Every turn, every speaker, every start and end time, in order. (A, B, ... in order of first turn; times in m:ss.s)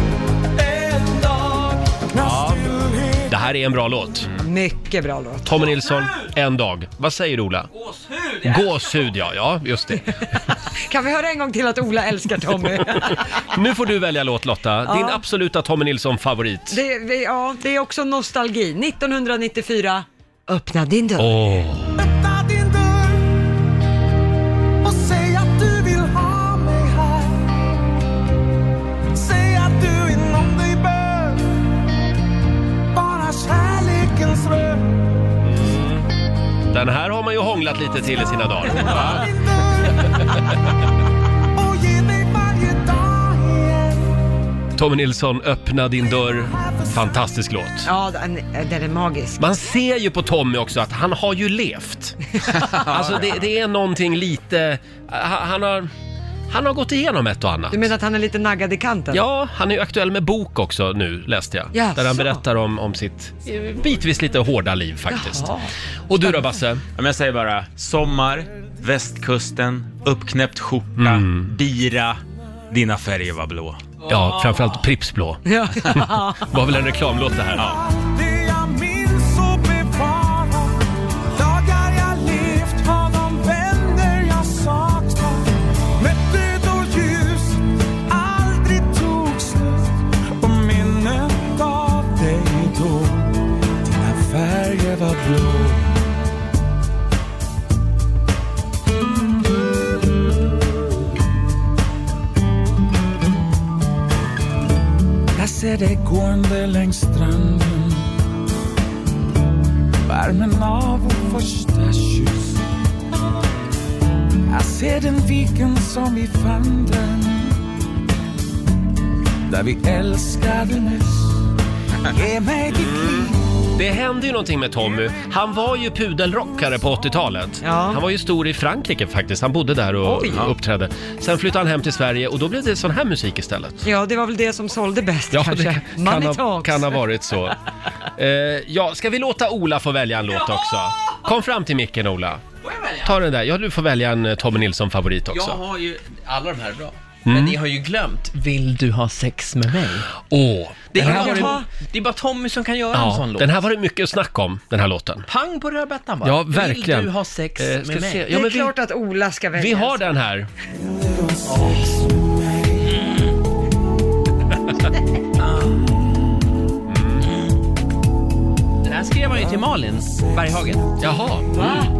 0:00.6-0:03.4 A
0:02.2-0:02.7 B
0:03.3-0:04.3 B
0:04.4-0:05.6 C
0:05.4-0:07.7 B
0:05.6-0:06.3 D
0:07.7-0:09.1 D
0:08.4-0:10.2 B
0:10.7-0:13.4 C
0:12.9-0:16.8 B
0:14.8-0:15.2 C
0:16.7-0:21.4 C
0:21.2-0:22.0 B
0:22.0-0:23.4 A
0:24.8-0:27.6 A
0:29.1-0:31.5 A
0:32.9-0:35.0 A
0:35.4-0:36.0 B
0:36.7-0:39.3 B
0:38.7-0:40.4 A
0:41.5-0:44.2 A
0:44.8-0:47.9 B
0:46.3-0:47.2 A
0:47.8-0:49.4 C
0:49.4-0:55.9 B
0:56.5-0:57.9 B
0:57.7-0:59.2 C
0:59.1-1:05.5 B
1:01.7-1:02.4 C
1:05.1-1:05.7 C
1:06.1-1:06.8 B
1:07.0-1:13.8 E
1:11.0-1:11.5 B
1:14.0-1:14.8 D
1:14.1-1:17.7 B
1:15.4-1:16.5 C
1:17.6-1:17.8 E
1:17.6-1:20.8 A
1:21.3-1:36.0 A
1:45.3-1:48.1 A
1:50.0-1:52.6 A
1:54.5-1:57.6 A
1:59.5-2:01.4 A
2:02.0-2:03.5 A
2:02.7-2:13.8 B
2:07.6-2:08.0 C
2:10.0-2:10.5 C
2:13.8-2:17.0 C
2:15.3-2:17.6 B
2:18.2-2:22.4 B
2:20.3-2:21.2 D
2:22.6-2:23.2 D
2:23.0-2:25.6 B
2:25.3-2:30.1 D
2:27.2-2:27.6 B
2:30.3-2:31.6 B
2:30.9-2:33.5 D
2:31.0-2:31.7 C
2:32.9-2:35.3 B
2:35.3-2:38.3 D
2:36.2-2:38.7 B
2:38.3-2:40.1 C
2:39.6-2:40.5 B
2:40.8-2:43.0 A
2:46.9-2:47.2 B
2:48.8-2:50.9 D
2:51.0-2:51.5 B
2:51.6-2:51.8 D